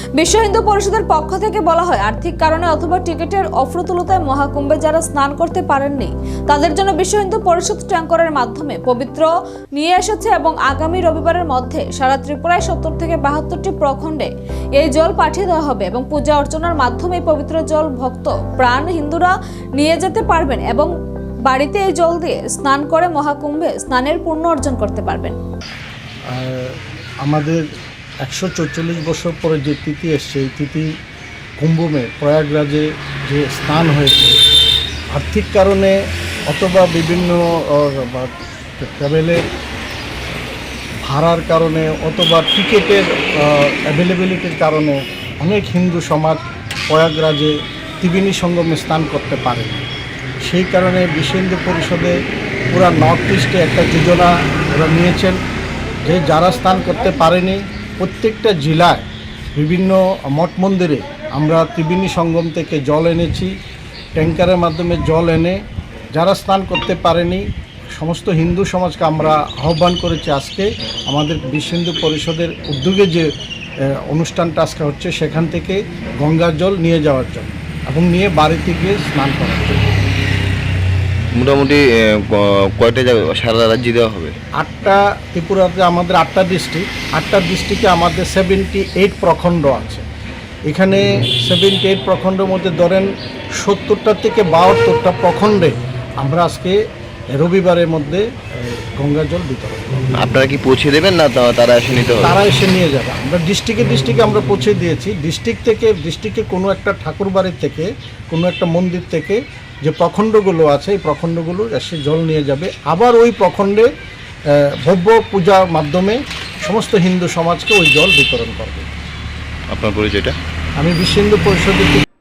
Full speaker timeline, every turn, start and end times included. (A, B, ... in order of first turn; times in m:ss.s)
0:00.2-0:20.9 A
0:21.5-0:25.4 A
0:26.3-0:27.6 B
0:28.2-0:30.9 B
0:31.6-0:34.4 B
0:35.1-0:36.0 B
0:36.5-0:39.4 B
0:41.0-0:49.9 B
0:50.4-0:52.2 B
0:52.7-0:55.4 B
0:56.0-1:03.6 B
1:04.2-1:05.6 B
1:06.1-1:13.3 B
1:13.8-1:19.8 B
1:21.4-1:24.3 C
1:24.6-1:30.0 B
1:30.7-1:36.8 B
1:37.3-1:40.1 B
1:40.2-1:42.4 C
1:42.2-1:53.9 B
1:54.5-1:58.9 B
1:59.7-2:00.3 C
2:00.8-2:02.0 B